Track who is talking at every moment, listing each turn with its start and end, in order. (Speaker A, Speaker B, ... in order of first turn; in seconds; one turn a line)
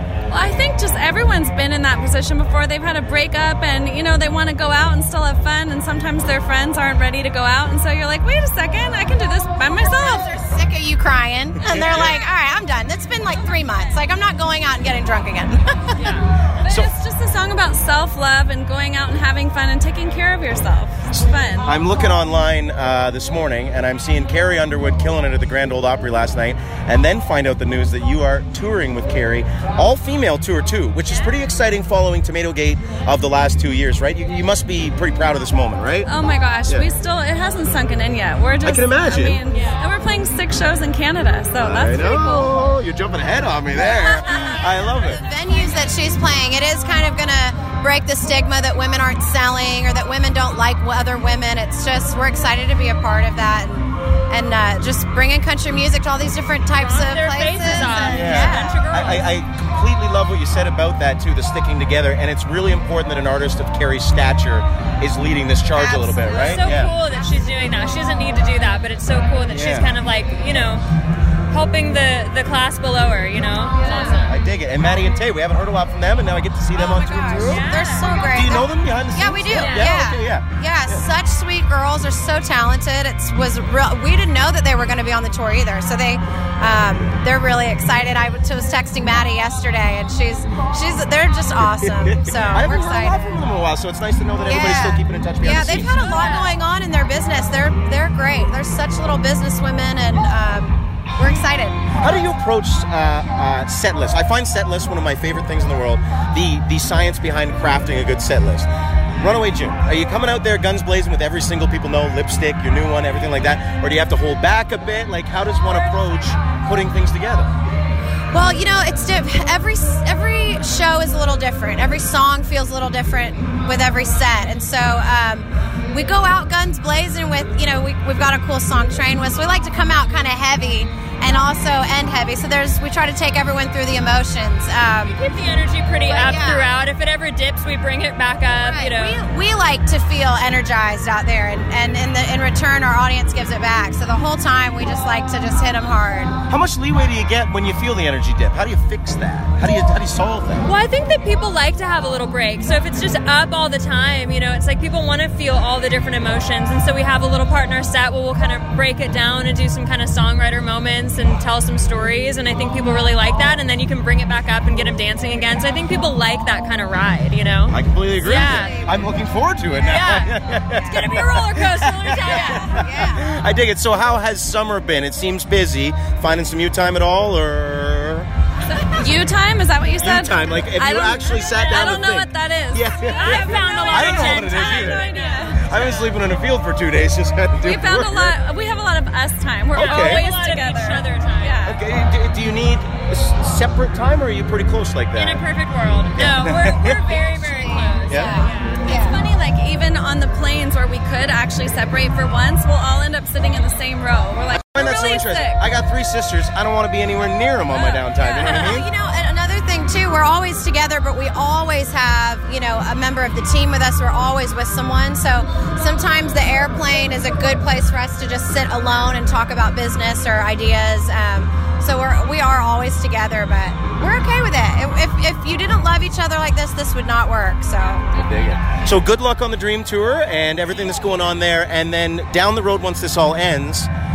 Speaker A: 0.3-10.2
Speaker B: 9.8-16.1
Speaker C: 11.6-12.2
Speaker D: 15.9-16.3
Speaker A: 16.6-21.7
Speaker C: 16.6-16.9
Speaker C: 21.6-36.1
Speaker D: 31.0-31.4
Speaker A: 36.0-42.5
Speaker C: 38.6-39.4
Speaker D: 39.5-39.9
Speaker C: 41.6-45.2
Speaker A: 43.9-44.6
Speaker B: 44.5-58.8
Speaker D: 56.8-59.3
Speaker C: 58.1-66.9
Speaker B: 65.7-66.8
Speaker D: 66.3-70.8
Speaker C: 69.5-69.9
Speaker D: 71.5-74.3
Speaker B: 73.8-74.2
Speaker C: 74.2-81.1
Speaker B: 76.7-93.4
Speaker D: 77.4-78.2
Speaker D: 79.5-79.9
Speaker C: 91.7-96.0
Speaker B: 94.4-101.9
Speaker D: 96.0-96.5
Speaker C: 102.0-117.5
Speaker B: 118.3-135.2
Speaker D: 135.1-139.2
Speaker B: 136.1-136.7
Speaker B: 138.5-146.3
Speaker C: 146.5-150.7
Speaker D: 150.6-168.8
Speaker C: 167.7-178.3
Speaker B: 168.4-169.1
Speaker D: 169.8-172.8
Speaker B: 170.7-171.1
Speaker B: 172.1-173.3
Speaker A: 178.7-185.7
Speaker C: 180.0-185.1
Speaker D: 183.1-186.1
Speaker C: 185.6-188.4
Speaker A: 187.6-191.8
Speaker C: 189.7-190.2
Speaker D: 189.7-191.6
Speaker C: 191.6-195.4
Speaker D: 195.1-199.1
Speaker C: 196.1-197.2
Speaker B: 197.2-199.2
Speaker C: 198.1-198.4
Speaker A: 198.1-205.6
Speaker C: 204.5-208.9
Speaker A: 208.2-208.6
Speaker B: 208.2-228.1
Speaker C: 228.1-233.9